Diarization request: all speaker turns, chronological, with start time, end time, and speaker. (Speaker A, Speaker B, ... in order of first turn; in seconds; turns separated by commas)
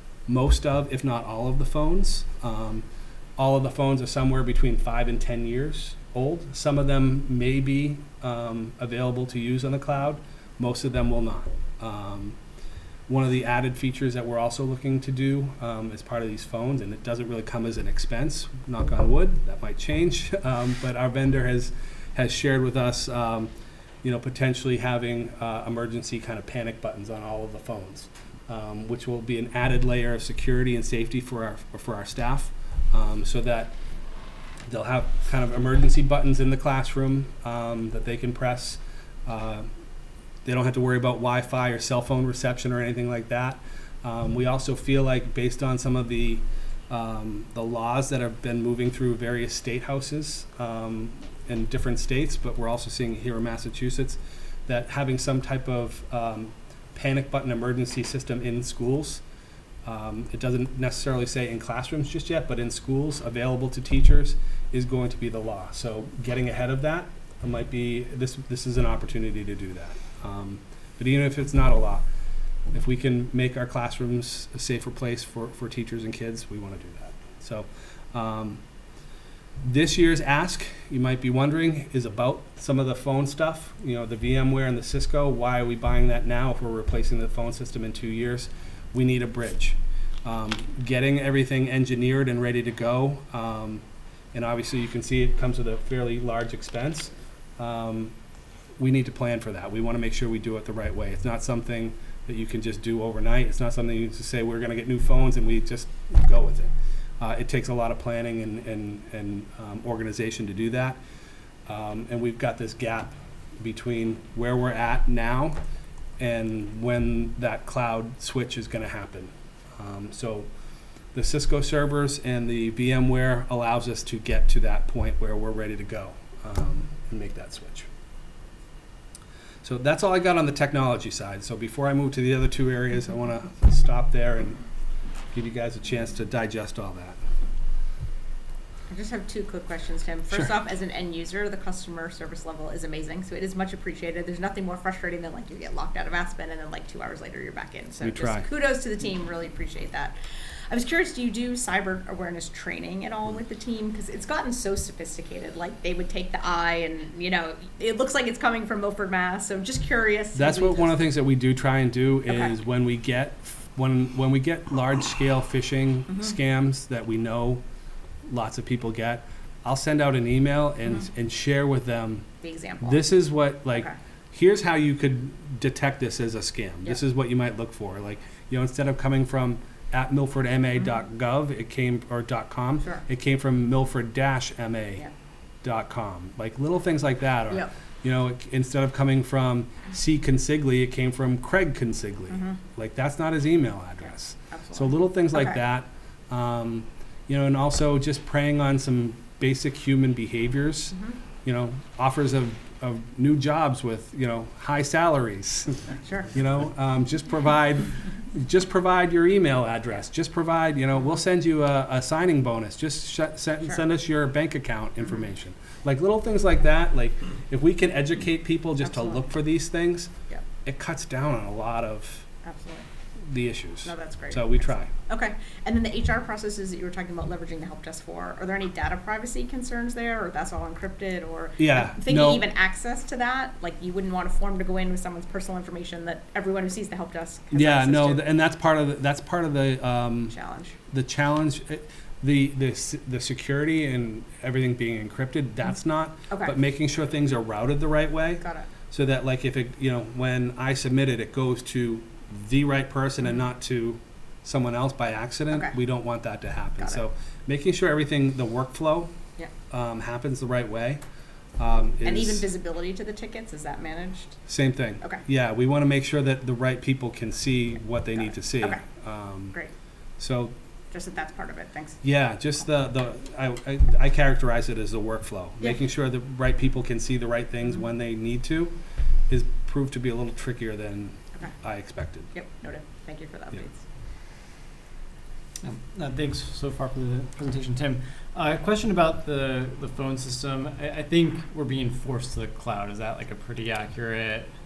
Speaker A: 0.3-2.9, Speaker A: 3.4-12.4, Speaker A: 13.1-23.5, Speaker A: 24.0-33.8, Speaker A: 34.7-39.7, Speaker A: 40.5-59.2, Speaker A: 59.9-72.0, Speaker A: 72.7-78.6, Speaker A: 79.6-98.2, Speaker A: 98.8-111.0, Speaker A: 111.7-115.6, Speaker A: 116.2-120.5, Speaker A: 121.1-127.9, Speaker A: 129.6-134.6, Speaker A: 135.3-137.2, Speaker B: 138.9-150.2, Speaker A: 148.0-148.5, Speaker B: 150.7-161.0, Speaker A: 160.3-167.6, Speaker A: 168.3-172.3, Speaker B: 172.4-173.0, Speaker A: 172.8-185.1, Speaker A: 185.6-220.1, Speaker B: 192.3-192.6, Speaker B: 194.5-195.6, Speaker B: 218.8-219.2, Speaker A: 220.6-222.3, Speaker B: 222.4-222.9, Speaker A: 223.3-224.9, Speaker B: 223.9-238.3, Speaker A: 231.6-232.5, Speaker A: 237.5-240.3, Speaker B: 240.3-240.8, Speaker A: 240.9-259.1, Speaker B: 248.4-248.7, Speaker A: 259.7-261.0, Speaker A: 261.6-262.5, Speaker B: 262.0-264.4, Speaker A: 264.5-269.6, Speaker B: 268.4-268.8, Speaker A: 270.2-270.6, Speaker B: 270.9-272.0, Speaker A: 272.0-278.8, Speaker A: 279.3-282.3, Speaker B: 282.3-283.8, Speaker C: 285.6-294.5